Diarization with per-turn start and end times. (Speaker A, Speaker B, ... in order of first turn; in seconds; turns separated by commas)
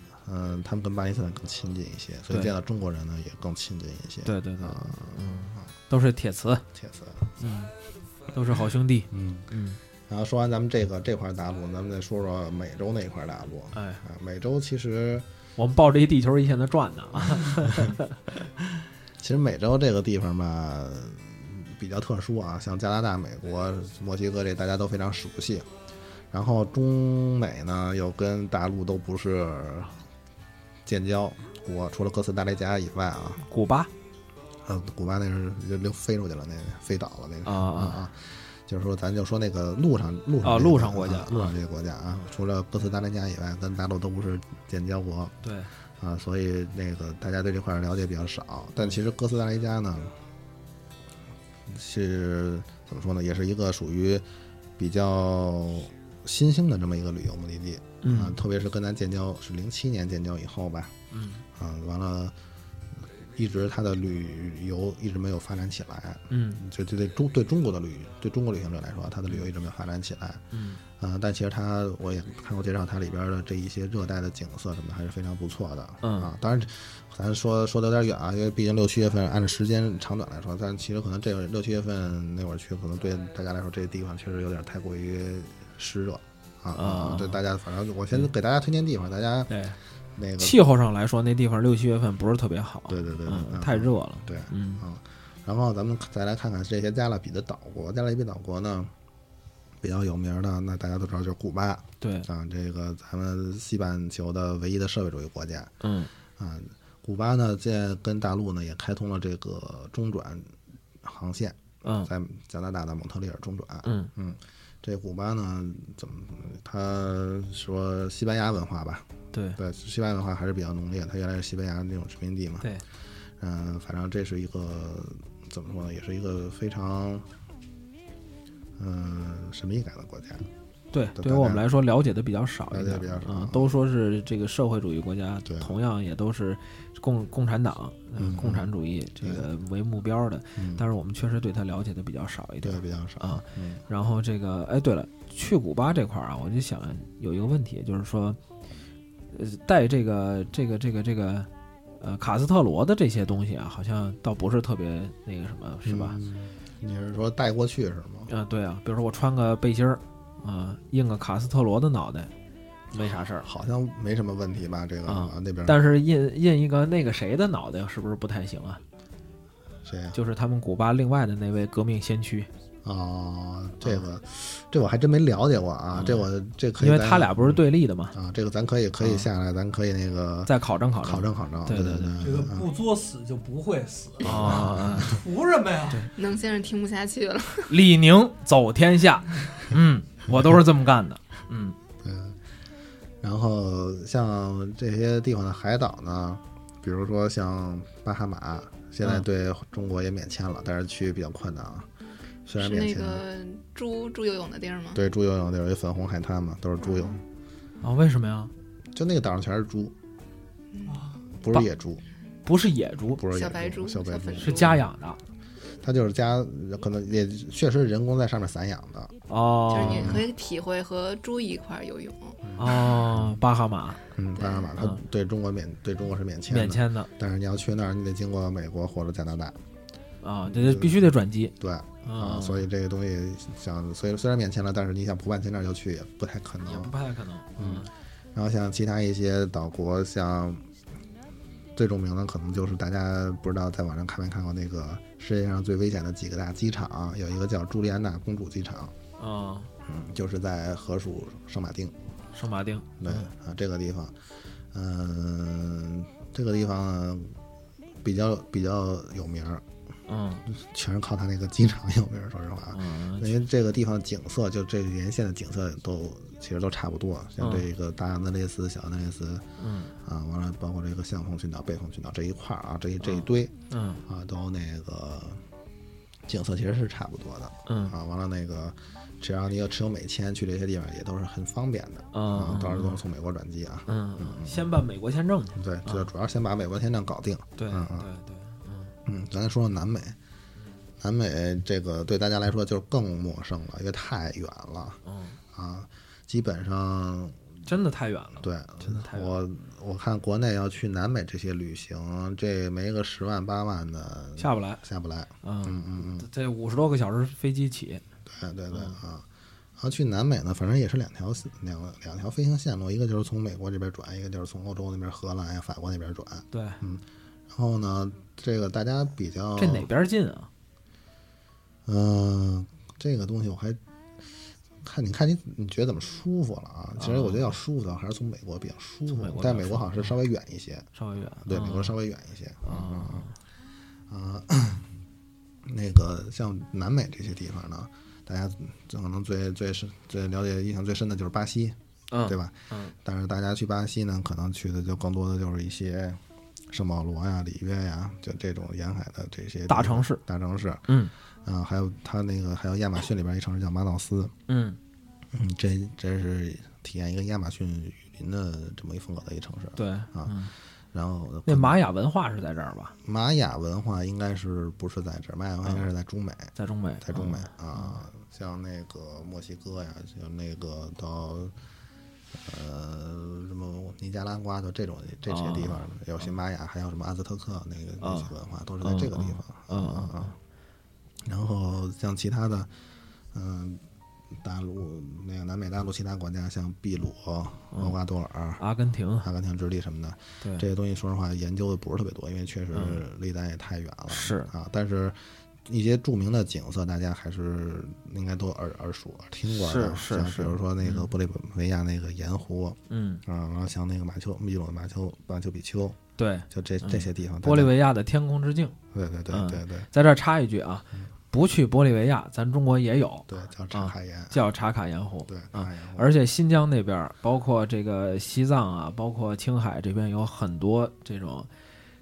Speaker A: 0.2-5.7, Speaker B: 4.2-6.6, Speaker A: 6.7-7.4, Speaker B: 7.4-7.7, Speaker B: 8.3-9.8, Speaker A: 9.1-9.5, Speaker A: 10.1-15.3, Speaker B: 13.7-14.0, Speaker B: 15.6-18.2, Speaker A: 17.1-17.9, Speaker A: 19.2-25.7, Speaker A: 26.3-30.0, Speaker A: 30.9-33.4, Speaker B: 33.5-33.9, Speaker A: 34.6-45.4, Speaker B: 37.4-38.0, Speaker B: 40.4-41.5, Speaker B: 45.4-45.7, Speaker A: 46.0-50.2, Speaker A: 51.7-54.2, Speaker A: 54.8-61.0, Speaker B: 58.0-58.4, Speaker B: 61.1-61.4, Speaker A: 61.5-62.3, Speaker A: 63.3-89.6, Speaker B: 66.3-66.6, Speaker B: 70.5-70.8, Speaker B: 76.0-76.3, Speaker B: 86.7-87.4, Speaker B: 89.5-89.8, Speaker A: 90.1-90.6, Speaker B: 90.4-94.8, Speaker A: 92.9-98.9, Speaker A: 99.8-105.8, Speaker B: 102.0-102.3, Speaker B: 105.8-106.1, Speaker A: 106.3-122.7, Speaker B: 111.8-112.1, Speaker B: 113.8-114.1, Speaker B: 119.3-119.6, Speaker A: 123.4-127.3, Speaker A: 128.8-130.5, Speaker B: 130.9-148.4, Speaker A: 131.1-131.6, Speaker A: 132.7-133.8, Speaker A: 135.4-135.7, Speaker A: 138.2-138.7, Speaker A: 139.2-139.4, Speaker A: 140.6-140.8, Speaker A: 142.6-143.8, Speaker B: 149.3-156.2, Speaker A: 155.8-158.3, Speaker B: 158.3-162.3, Speaker B: 162.9-163.5, Speaker A: 162.9-165.9, Speaker B: 165.1-168.8, Speaker A: 169.8-170.2, Speaker B: 170.1-172.5, Speaker A: 172.8-182.7, Speaker B: 175.9-176.3, Speaker B: 176.8-178.1, Speaker B: 179.0-179.3, Speaker B: 180.4-182.2, Speaker C: 182.2-186.1, Speaker B: 184.2-185.2, Speaker A: 184.4-185.1, Speaker D: 186.1-187.7, Speaker B: 187.7-191.8, Speaker A: 192.0-192.4, Speaker A: 193.2-201.9, Speaker A: 202.4-203.2, Speaker D: 202.6-205.0, Speaker A: 204.9-207.2, Speaker D: 206.8-207.2, Speaker B: 207.8-208.5, Speaker A: 208.9-209.9, Speaker D: 210.7-211.1, Speaker C: 210.9-211.2, Speaker A: 211.4-212.0, Speaker B: 212.4-213.2, Speaker A: 213.1-214.8, Speaker D: 213.3-214.8, Speaker B: 214.4-215.2, Speaker A: 215.8-219.1, Speaker B: 219.3-220.2, Speaker D: 219.7-222.8, Speaker A: 219.7-220.3, Speaker A: 222.4-223.4, Speaker B: 222.6-224.0, Speaker A: 224.1-229.6, Speaker D: 224.3-224.8, Speaker B: 226.5-227.1, Speaker B: 230.2-232.7, Speaker A: 230.4-231.1, Speaker A: 231.6-236.9, Speaker B: 236.6-237.9, Speaker A: 237.6-240.6, Speaker A: 241.7-248.9, Speaker B: 249.2-249.7, Speaker A: 249.8-251.9, Speaker B: 252.3-253.3, Speaker A: 253.0-254.2, Speaker A: 254.7-257.4, Speaker A: 258.0-259.6, Speaker B: 260.1-260.4, Speaker A: 260.5-269.5, Speaker B: 262.7-263.4, Speaker B: 267.4-267.7, Speaker B: 269.6-269.9, Speaker A: 270.0-273.5, Speaker B: 273.0-274.0, Speaker A: 274.1-275.4, Speaker A: 276.2-284.7, Speaker B: 277.7-277.9, Speaker B: 282.1-283.0, Speaker B: 283.9-286.1, Speaker A: 285.5-288.1, Speaker B: 287.6-288.9, Speaker A: 289.0-290.2, Speaker A: 291.0-295.0, Speaker B: 295.0-295.4, Speaker A: 295.5-297.4, Speaker B: 297.6-299.4, Speaker A: 298.4-306.3, Speaker B: 304.4-304.8, Speaker B: 305.4-308.0, Speaker A: 308.2-319.9, Speaker B: 308.7-309.0, Speaker B: 316.5-316.8, Speaker B: 319.6-320.5, Speaker A: 321.9-323.8, Speaker A: 324.8-330.9, Speaker B: 327.0-327.5, Speaker B: 329.1-330.2, Speaker B: 330.9-332.0, Speaker A: 331.4-333.3, Speaker B: 332.6-333.3, Speaker A: 334.1-334.9, Speaker A: 335.6-350.9, Speaker B: 342.1-342.9, Speaker B: 349.7-350.2, Speaker A: 351.4-354.3, Speaker B: 354.5-354.8, Speaker A: 355.3-360.4, Speaker B: 359.8-360.5, Speaker A: 360.9-361.8, Speaker B: 361.4-362.9, Speaker A: 363.0-371.5, Speaker B: 366.6-367.9, Speaker A: 372.3-380.4, Speaker B: 375.3-375.9, Speaker B: 378.0-378.3, Speaker B: 378.8-380.3, Speaker A: 381.2-382.7, Speaker A: 383.3-383.8, Speaker A: 384.4-388.6, Speaker B: 387.7-388.0, Speaker B: 388.6-389.3, Speaker A: 389.2-407.8, Speaker B: 390.4-390.6, Speaker B: 392.7-393.0, Speaker B: 394.1-394.5, Speaker B: 399.5-401.1, Speaker B: 402.9-403.2, Speaker B: 406.2-408.7, Speaker A: 408.9-409.9, Speaker B: 409.3-421.5, Speaker A: 413.3-414.4, Speaker A: 415.3-416.1